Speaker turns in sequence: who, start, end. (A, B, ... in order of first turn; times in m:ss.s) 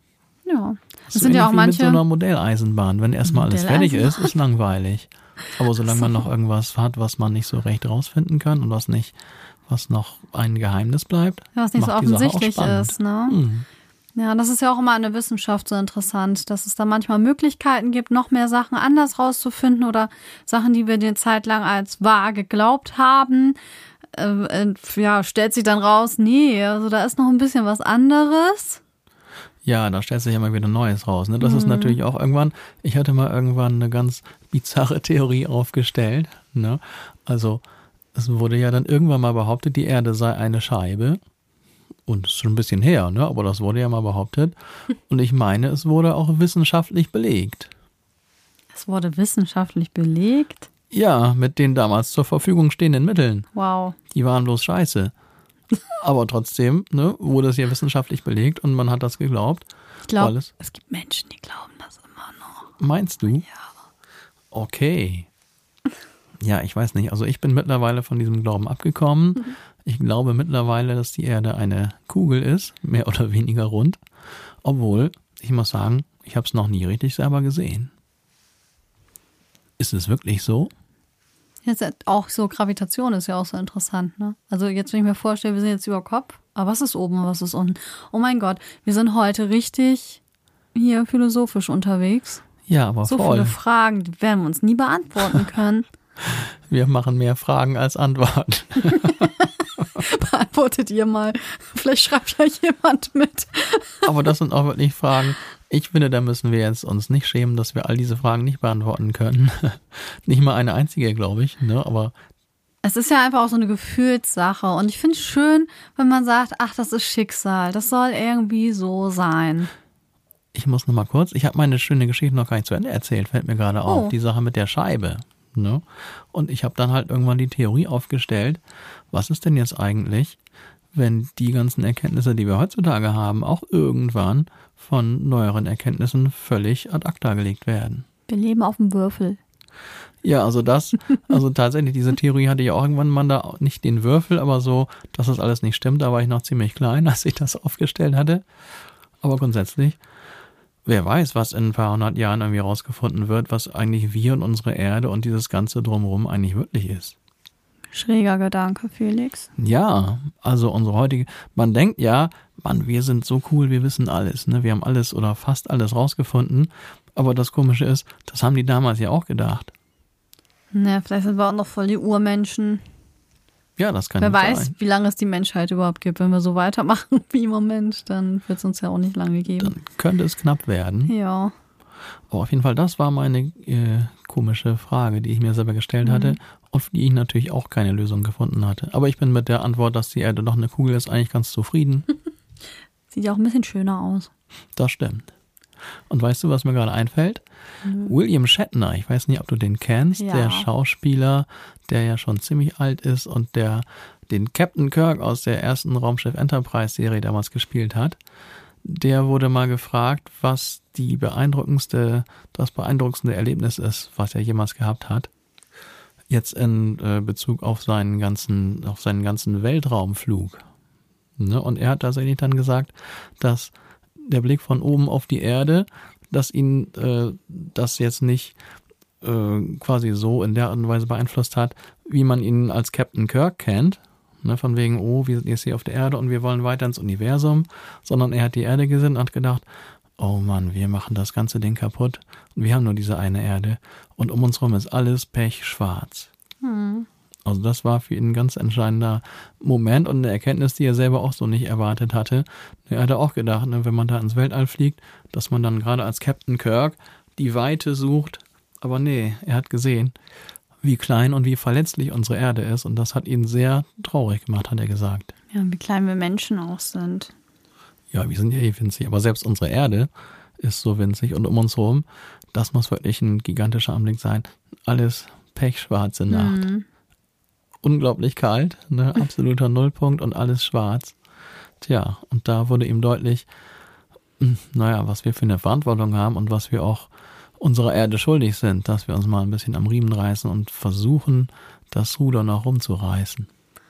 0:00.4-0:02.0 A
0:01.1-0:09.1 B
0:03.3-0:04.3 A
0:06.0-0:06.2 A
0:09.7-0:13.7 B
0:11.6-0:13.4 A
0:14.2-0:23.6 A
0:24.1-0:28.8 A
0:29.6-0:37.6 B
0:31.4-0:32.0 A
0:38.1-0:41.2 B
0:42.1-0:44.6 B
0:45.1-0:47.7 B
0:48.7-0:50.7 A
0:50.9-0:53.5 B
0:53.6-0:54.0 A
0:54.1-0:55.1 B
0:56.0-0:59.7 B
1:00.1-1:02.7 A
1:00.2-1:00.5 B
1:02.8-1:03.5 B
1:04.5-1:05.3 B
1:06.4-1:14.0 B
1:14.6-1:17.9 B
1:19.8-1:20.7 B
1:21.6-1:30.2 A
1:30.8-1:32.4 A
1:32.7-1:33.6 B
1:33.1-1:35.9 A
1:36.3-1:39.9 B
1:39.0-1:39.3 A
1:39.9-1:44.1 A
1:44.0-1:52.1 B
1:52.8-1:59.7 A
2:00.5-2:10.4 B
2:03.9-2:04.1 A
2:10.9-2:18.0 B
2:18.3-2:19.4 A
2:20.2-2:28.4 B
2:29.2-2:30.0 B
2:30.9-2:37.2 B
2:37.9-2:39.5 A
2:39.6-2:49.7 B
2:50.7-2:52.8 A
2:53.8-2:54.7 B
2:54.2-2:59.8 A
2:59.6-3:01.1 B
3:01.1-3:01.5 A
3:02.3-3:12.1 B
3:06.0-3:06.4 A
3:13.1-3:14.3 A
3:14.8-3:15.3 B
3:16.1-3:17.4 B
3:17.8-3:18.1 A
3:18.0-3:28.2 B
3:20.2-3:20.7 A
3:28.8-3:35.3 B
3:36.3-3:40.6 B
3:41.4-3:48.6 B
3:49.2-3:59.6 B
4:00.2-4:06.3 B
4:06.6-4:07.1 A
4:07.5-4:20.1 B
4:20.8-4:25.3 B
4:25.5-4:27.3 A
4:28.1-4:30.1 B
4:30.6-4:36.7 B
4:36.3-4:36.9 A
4:37.8-4:41.2 B
4:41.8-4:43.5 B
4:44.4-4:53.5 B